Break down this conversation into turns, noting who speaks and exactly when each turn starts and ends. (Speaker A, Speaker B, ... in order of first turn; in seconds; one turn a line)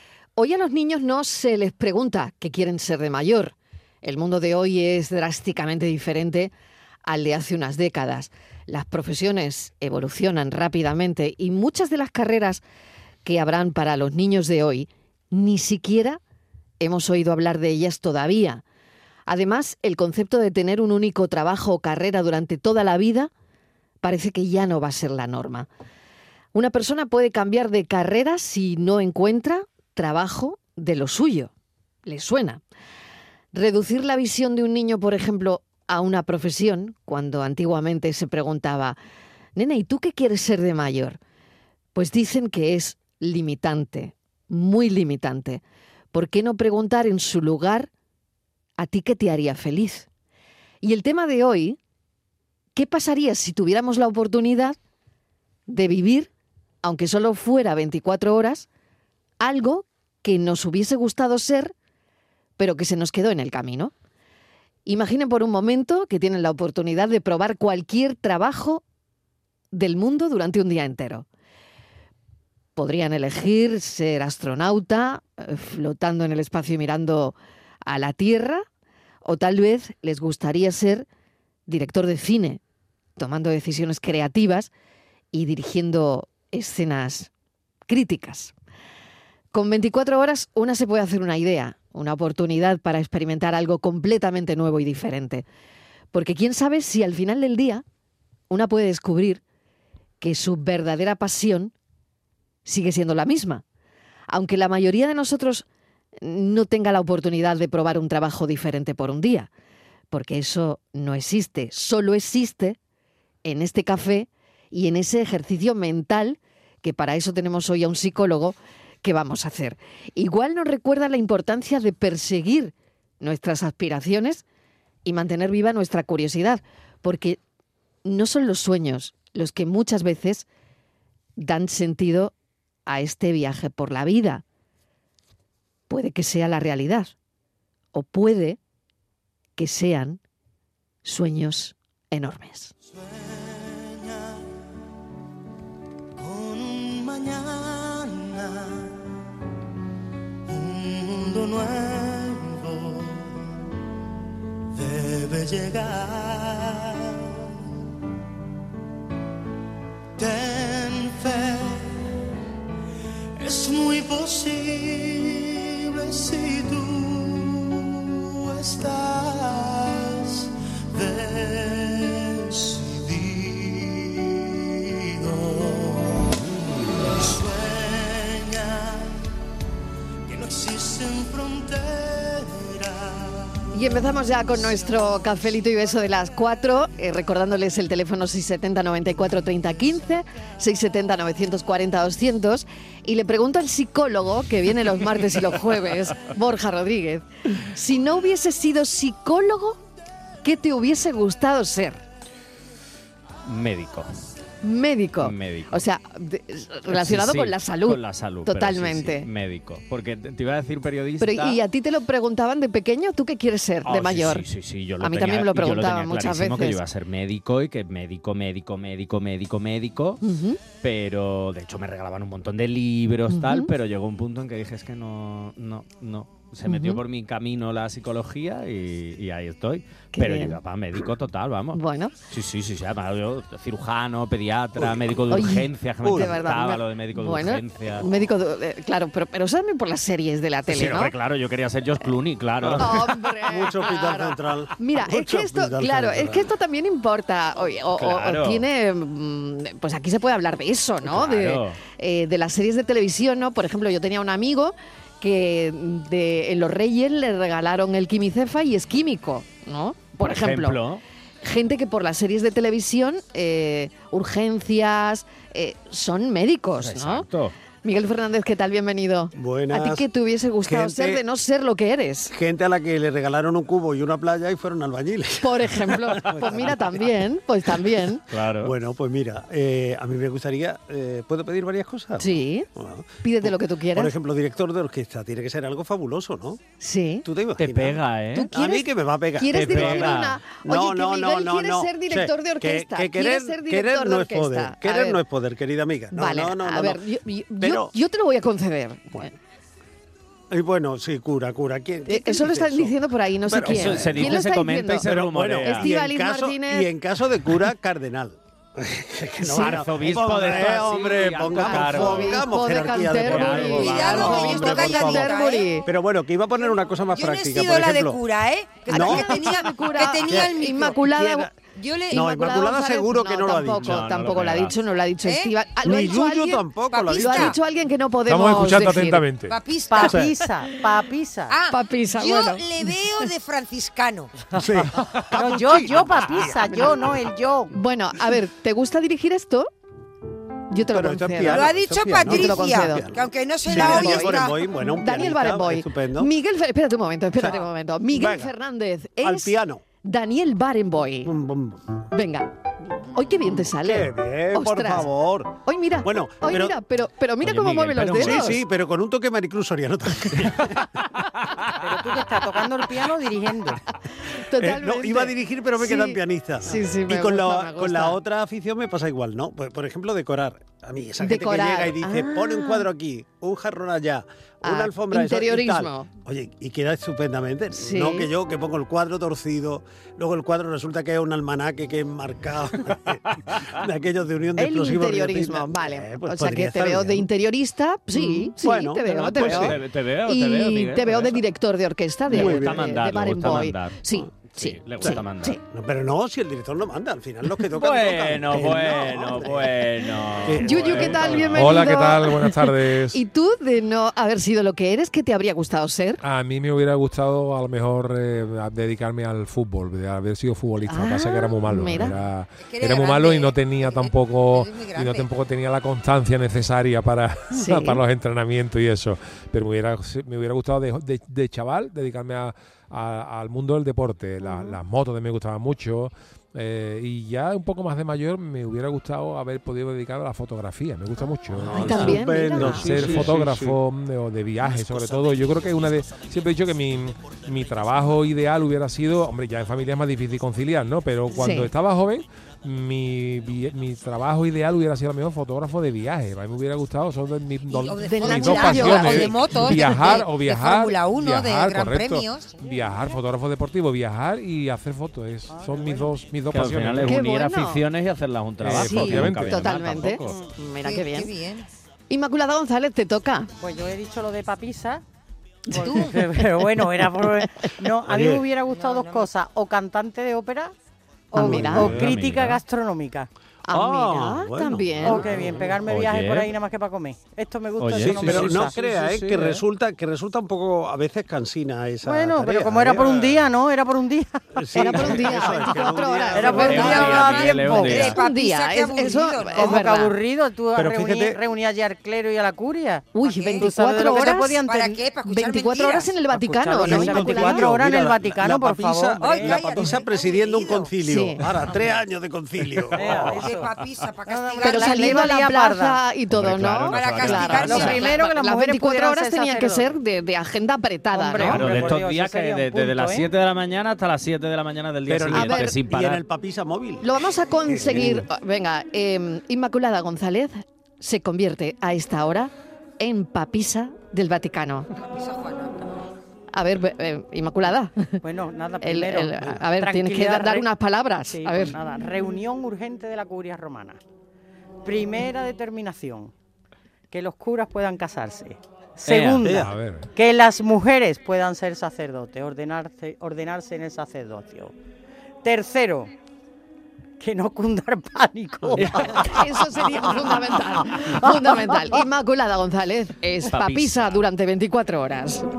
Speaker A: 0.3-6.5
Speaker A: 7.0-12.6
Speaker A: 13.2-16.2
Speaker A: 16.8-18.6
Speaker A: 19.3-23.3
Speaker A: 24.0-25.7
Speaker A: 26.5-31.5
Speaker A: 32.0-32.6
Speaker A: 33.5-39.0
Speaker A: 39.5-41.2
Speaker A: 41.9-45.6
Speaker A: 46.1-47.9
Speaker A: 48.8-50.1
Speaker A: 50.8-51.8
Speaker A: 52.7-54.8
Speaker A: 55.7-56.3
Speaker A: 56.8-58.7
Speaker A: 59.4-61.7
Speaker A: 62.6-63.9
Speaker A: 64.8-68.8
Speaker A: 69.7-71.2
Speaker A: 72.8-78.7
Speaker A: 79.2-81.1
Speaker A: 81.7-82.6
Speaker A: 83.2-84.7
Speaker A: 85.3-87.3
Speaker A: 87.9-88.5
Speaker A: 89.5-95.5
Speaker A: 96.1-97.8
Speaker A: 98.5-99.4
Speaker A: 100.2-101.7
Speaker A: 102.7-103.6
Speaker A: 104.3-105.6
Speaker A: 106.2-109.5
Speaker A: 110.1-112.8
Speaker A: 113.4-124.4
Speaker A: 125.0-127.4
Speaker A: 128.0-130.4
Speaker A: 131.4-132.3
Speaker A: 132.9-134.4
Speaker A: 135.9-137.1
Speaker A: 137.9-138.6
Speaker A: 139.6-140.2
Speaker A: 141.0-142.7
Speaker B: 142.9-144.4
Speaker B: 146.2-149.0
Speaker B: 150.5-153.5
Speaker B: 154.7-157.6
Speaker B: 160.2-162.1
Speaker B: 163.4-176.3
Speaker B: 176.9-179.2
Speaker B: 180.2-185.1
Speaker A: 183.7-199.8
Speaker A: 200.4-202.0
Speaker C: 203.4-204.1
Speaker A: 204.6-209.3
Speaker C: 205.2-205.8
Speaker C: 206.9-211.6
Speaker A: 211.2-214.4
Speaker C: 213.8-220.2
Speaker A: 215.0-216.8
Speaker A: 220.2-220.6
Speaker C: 220.8-238.1
Speaker A: 223.3-223.7
Speaker A: 226.7-227.0
Speaker A: 230.1-230.6
Speaker A: 231.7-232.1
Speaker D: 234.8-235.2
Speaker A: 235.3-241.1
Speaker D: 236.0-236.4
Speaker C: 240.7-243.0
Speaker D: 242.6-246.5
Speaker A: 242.8-260.8
Speaker C: 247.9-248.6
Speaker C: 251.0-251.8
Speaker C: 260.2-261.0
Speaker A: 261.4-267.3
Speaker C: 266.8-267.5
Speaker A: 267.8-272.3
Speaker D: 269.3-270.0
Speaker D: 270.6-271.2
Speaker D: 272.3-277.1
Speaker A: 275.4-278.2
Speaker C: 278.3-278.7
Speaker D: 278.6-286.6
Speaker A: 282.2-282.7
Speaker A: 283.2-284.1
Speaker A: 286.8-287.2
Speaker D: 287.2-297.0
Speaker C: 287.6-288.5
Speaker A: 288.3-295.2
Speaker C: 289.5-290.4
Speaker A: 296.1-299.3
Speaker D: 297.6-297.9
Speaker D: 300.5-302.9
Speaker A: 302.1-305.1
Speaker D: 303.5-304.4
Speaker C: 303.6-305.9
Speaker D: 305.1-318.2
Speaker A: 305.6-306.9
Speaker A: 309.4-309.8
Speaker C: 309.5-312.4
Speaker A: 311.6-315.9
Speaker C: 313.1-314.6
Speaker E: 313.8-315.7
Speaker E: 317.1-321.0
Speaker A: 318.9-321.5
Speaker D: 318.9-321.5
Speaker E: 321.6-322.2
Speaker A: 322.1-329.2
Speaker D: 322.1-324.1
Speaker C: 323.8-324.8
Speaker E: 325.2-325.6
Speaker D: 325.8-327.6
Speaker E: 326.9-327.6
Speaker F: 328.3-329.6
Speaker E: 329.5-330.2
Speaker G: 329.9-331.5
Speaker E: 331.5-334.3
Speaker A: 331.7-332.9
Speaker D: 334.5-337.2
Speaker G: 335.3-337.7
Speaker A: 337.7-339.7
Speaker A: 340.7-341.7
Speaker D: 340.9-346.3
Speaker E: 341.5-344.6
Speaker A: 342.2-343.1
Speaker A: 343.7-344.4
Speaker A: 345.0-351.3
Speaker D: 347.4-348.5
Speaker D: 349.2-349.8
Speaker D: 351.2-351.8
Speaker A: 352.1-352.5
Speaker A: 353.1-355.1
Speaker D: 353.5-355.5
Speaker A: 355.6-358.6
Speaker D: 356.0-356.8
Speaker C: 357.4-358.6
Speaker D: 358.1-360.9
Speaker G: 361.8-363.8
Speaker A: 364.4-368.2
Speaker D: 364.6-387.3
Speaker A: 371.2-372.9
Speaker A: 374.6-376.1
Speaker A: 377.7-378.3
Speaker A: 384.6-389.8
Speaker D: 388.1-389.8
Speaker C: 389.4-391.4
Speaker A: 390.3-395.6
Speaker D: 392.3-392.9
Speaker C: 392.3-395.6
Speaker D: 395.0-402.0
Speaker C: 397.8-401.8
Speaker A: 400.6-406.2
Speaker F: 401.6-403.2
Speaker F: 406.2-457.1
Speaker A: 410.9-412.1
Speaker E: 412.6-415.3
Speaker A: 417.5-418.0
Speaker A: 424.4-424.8
Speaker C: 431.6-432.2
Speaker D: 431.6-433.8
Speaker A: 431.7-432.9
Speaker C: 432.8-433.4
Speaker D: 434.8-435.2
Speaker A: 441.3-441.7
Speaker E: 447.7-452.6
Speaker A: 448.0-450.1
Speaker G: 455.5-456.1
Speaker C: 456.5-460.4
Speaker A: 457.1-457.8
Speaker F: 458.6-460.1
Speaker A: 458.7-461.3
Speaker E: 460.8-461.6
Speaker A: 462.1-463.5
Speaker G: 463.6-465.0
Speaker G: 465.7-470.7
Speaker E: 465.7-466.2
Speaker D: 468.0-468.5
Speaker E: 468.7-469.3
Speaker A: 471.3-471.9
Speaker G: 471.3-473.3
Speaker C: 471.4-472.6
Speaker D: 471.4-472.1
Speaker F: 471.8-472.2
Speaker A: 473.6-475.2
Speaker D: 473.7-475.8
Speaker G: 475.0-478.8
Speaker C: 475.8-476.5
Speaker C: 477.8-479.6
Speaker D: 478.0-483.4
Speaker G: 482.0-488.1
Speaker D: 484.6-487.0
Speaker A: 484.7-490.1
Speaker C: 486.5-488.2
Speaker E: 486.8-489.9
Speaker G: 489.3-494.7
Speaker D: 490.7-491.4
Speaker A: 493.1-497.7
Speaker E: 493.2-496.1
Speaker G: 496.7-500.1
Speaker D: 496.7-503.5
Speaker E: 499.2-500.9
Speaker A: 501.0-501.4
Speaker G: 503.0-503.7
Speaker E: 503.1-505.2
Speaker G: 504.3-506.0
Speaker A: 504.6-511.6
Speaker C: 506.3-508.0
Speaker E: 506.9-508.0
Speaker G: 507.6-509.9
Speaker G: 511.1-513.3
Speaker C: 511.4-516.2
Speaker D: 515.1-517.1
Speaker A: 515.3-515.7
Speaker A: 517.0-524.9
Speaker D: 517.6-518.2
Speaker E: 525.0-526.0
Speaker A: 526.5-528.2
Speaker G: 528.2-530.7
Speaker A: 528.8-531.8
Speaker G: 531.3-534.0
Speaker G: 534.8-536.3
Speaker G: 537.1-544.7
Speaker C: 539.0-539.5
Speaker D: 539.4-539.7
Speaker F: 539.6-540.1
Speaker G: 545.4-546.1
Speaker G: 547.2-549.2
Speaker C: 548.8-549.1
Speaker A: 549.2-555.5
Speaker G: 551.1-552.0
Speaker C: 553.5-554.2